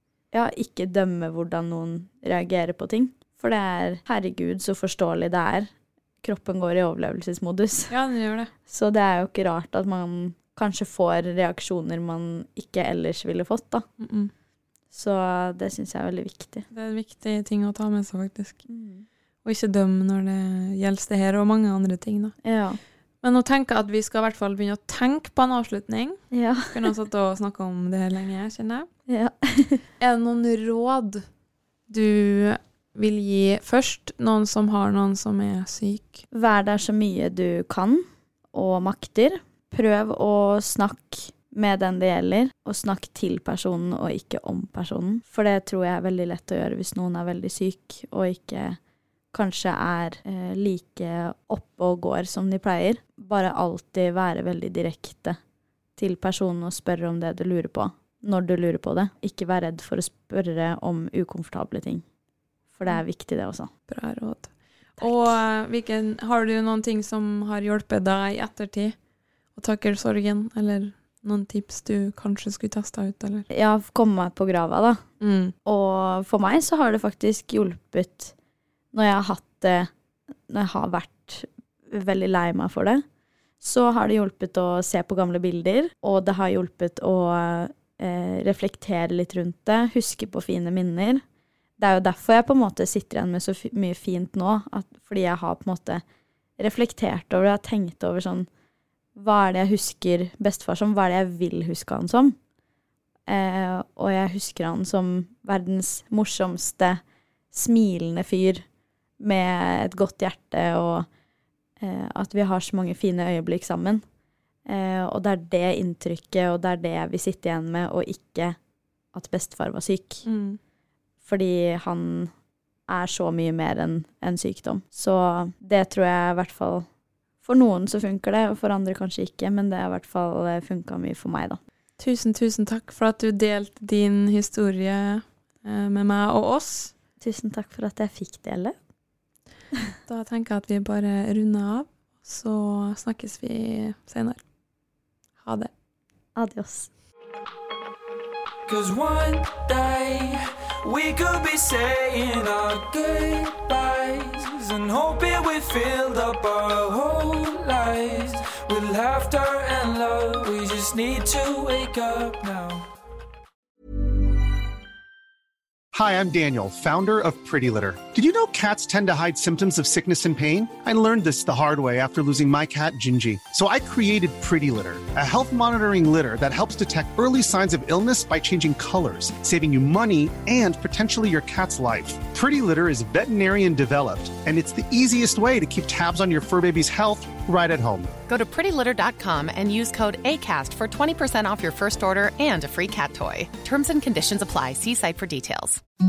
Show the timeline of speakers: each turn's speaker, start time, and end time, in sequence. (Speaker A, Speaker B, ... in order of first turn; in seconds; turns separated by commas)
Speaker A: 0.3-7.9, Speaker B: 7.9-8.5, Speaker A: 8.7-13.8, Speaker B: 14.0-14.3, Speaker A: 14.9-16.7, Speaker B: 16.7-18.6, Speaker A: 18.7-19.1, Speaker B: 19.4-22.4, Speaker A: 22.4-22.8, Speaker B: 23.2-28.9, Speaker A: 26.3-26.9, Speaker A: 29.1-29.9, Speaker B: 30.0-31.3, Speaker B: 31.9-36.2, Speaker A: 36.3-48.8, Speaker A: 49.3-55.4, Speaker A: 56.0-62.0, Speaker A: 62.7-63.7, Speaker B: 63.9-69.0, Speaker A: 65.0-65.4, Speaker B: 69.5-73.5, Speaker A: 73.5-75.0, Speaker B: 75.2-75.5, Speaker A: 75.7-78.3, Speaker A: 78.9-79.9, Speaker A: 80.5-83.0, Speaker A: 83.6-91.2, Speaker A: 91.8-96.0, Speaker A: 96.6-98.5, Speaker A: 99.2-102.4, Speaker A: 103.3-107.0, Speaker A: 107.5-108.7, Speaker A: 109.2-111.1, Speaker A: 111.8-114.0, Speaker A: 114.7-118.6, Speaker A: 119.1-120.2, Speaker B: 120.2-120.6, Speaker A: 121.2-122.3, Speaker A: 122.9-126.9, Speaker A: 127.4-131.6, Speaker B: 132.0-136.9, Speaker A: 137.2-138.8, Speaker B: 140.1-144.4, Speaker B: 145.4-145.7, Speaker A: 146.4-146.9, Speaker C: 148.7-162.9, Speaker D: 165.9-188.2, Speaker E: 188.3-195.8